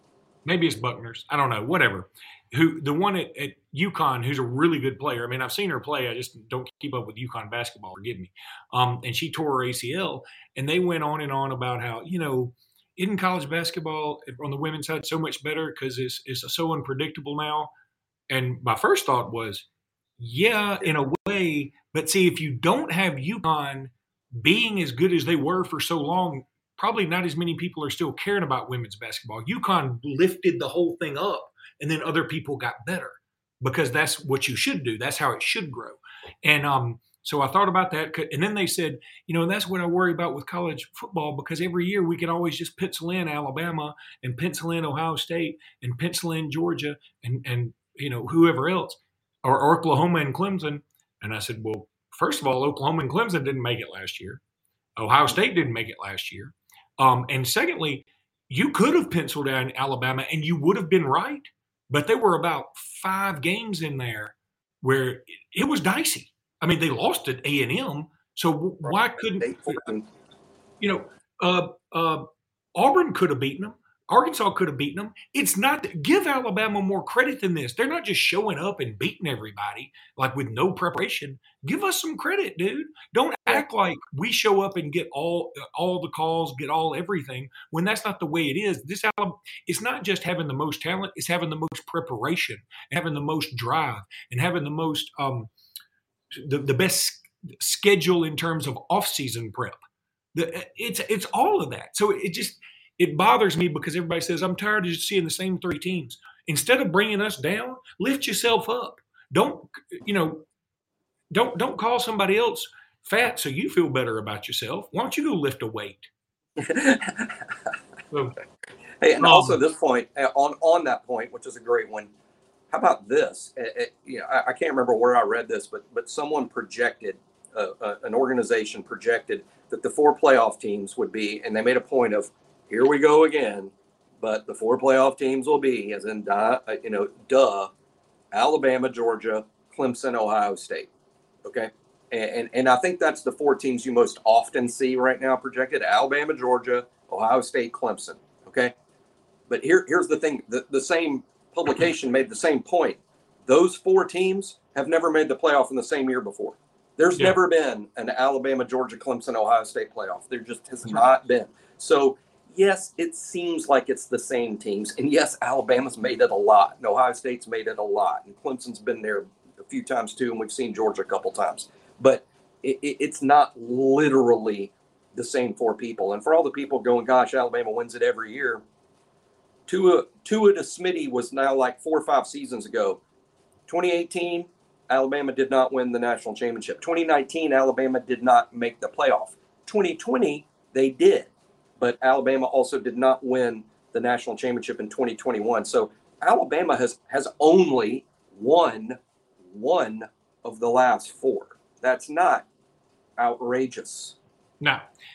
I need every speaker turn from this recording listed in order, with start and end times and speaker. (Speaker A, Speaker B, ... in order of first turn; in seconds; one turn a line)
Speaker A: 0.4-17.7
Speaker A: 18.3-19.6
Speaker A: 20.2-54.4
Speaker A: 55.0-69.8
Speaker B: 68.8-70.0
Speaker A: 70.8-95.5
Speaker A: 96.3-99.8
Speaker A: 100.3-110.4
Speaker A: 111.3-116.1
Speaker B: 116.6-117.5
Speaker A: 118.1-118.3
Speaker B: 119.0-122.1
Speaker A: 119.2-119.6
Speaker B: 122.7-137.7
Speaker B: 138.3-140.9
Speaker B: 141.4-148.7
Speaker B: 149.5-178.6
Speaker B: 179.7-183.0
Speaker B: 183.7-202.4
Speaker B: 203.2-204.2